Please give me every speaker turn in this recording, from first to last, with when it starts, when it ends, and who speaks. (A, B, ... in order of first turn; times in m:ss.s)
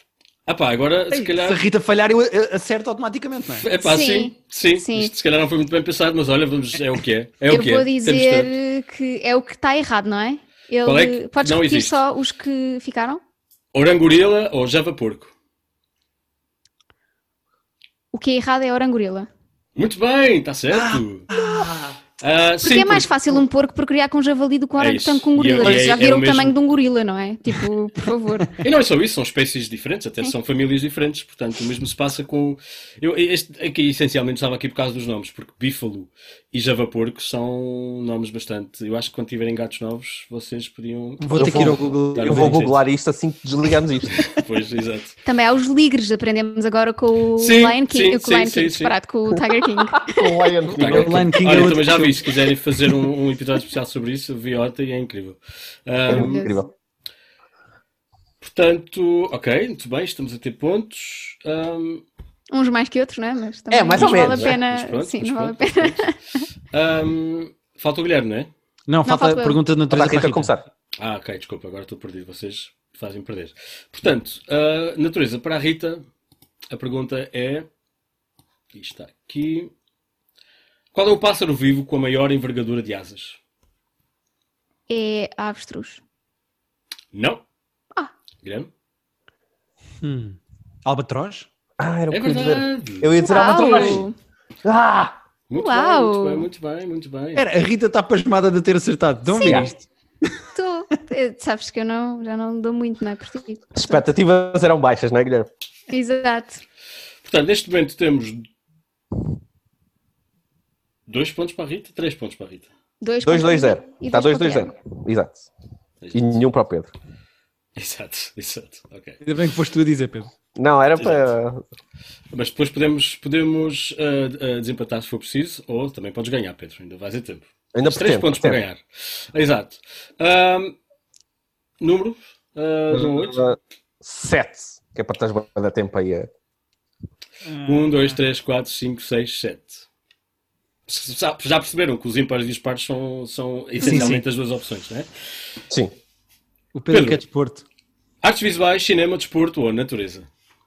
0:00.5-0:01.6 A
0:01.1-0:03.7 B
0:03.6-0:08.5 A
0:03.8-0:05.1 C
0:07.5-0:13.2 C
0:10.8-0:12.0 A
0:13.7-0:15.3 A
0:18.1-0:19.3 C
0:19.8-0:21.3 A
0:20.7-0:22.0 B
0:22.2-0:23.4 A
0:22.6-0:28.5 C
0:24.8-0:26.5 A
0:25.6-0:25.9 B
0:28.6-0:42.8 A
0:41.2-0:42.7 B
0:41.3-0:44.2 D
0:44.1-0:45.2 A
0:45.2-0:50.5 C
0:47.4-0:48.9 A
0:49.8-0:51.7 D
0:50.7-0:56.5 A
0:50.8-0:52.2 B
0:56.1-0:56.5 C
0:56.1-0:56.7 D
0:58.4-1:02.0 A
1:02.5-1:06.4 C
1:03.7-1:04.6 D
1:04.0-1:06.1 A
1:06.7-1:08.5 A
1:08.9-1:10.5 B
1:09.0-1:09.6 C
1:09.9-1:10.6 D
1:11.0-1:16.0 A
1:16.7-1:17.6 A
1:18.7-1:19.7 A
1:20.9-1:23.4 A
1:24.9-1:26.0 C
1:27.1-1:27.4 A
1:28.4-1:28.7 A
1:30.0-1:31.5 B
1:31.8-1:34.0 D
1:32.1-1:34.0 A
1:33.2-1:34.1 C
1:34.6-1:35.2 D
1:35.5-1:37.4 A
1:35.6-1:36.5 C
1:37.3-1:39.8 B
1:39.3-1:39.7 C
1:39.4-1:39.7 D
1:40.5-1:44.0 C
1:43.7-1:45.5 D
1:45.9-1:46.6 C
1:47.2-1:48.4 A
1:51.1-1:52.7 A
1:53.0-1:54.7 C
1:53.2-1:55.5 D
1:56.0-1:56.4 A
1:56.1-1:56.9 D
1:57.8-1:59.2 A
1:59.2-2:00.3 B
2:00.6-2:01.6 D
2:01.0-2:01.2 A
2:02.3-2:10.8 A
2:07.7-2:08.6 D
2:11.8-2:13.4 A
2:12.9-2:16.3 D
2:17.4-2:18.2 B
2:17.6-2:19.8 A
2:20.9-2:25.1 A
2:23.8-2:24.2 B
2:23.8-2:24.1 C
2:26.7-2:27.6 B
2:26.9-2:27.2 A
2:28.2-2:30.3 A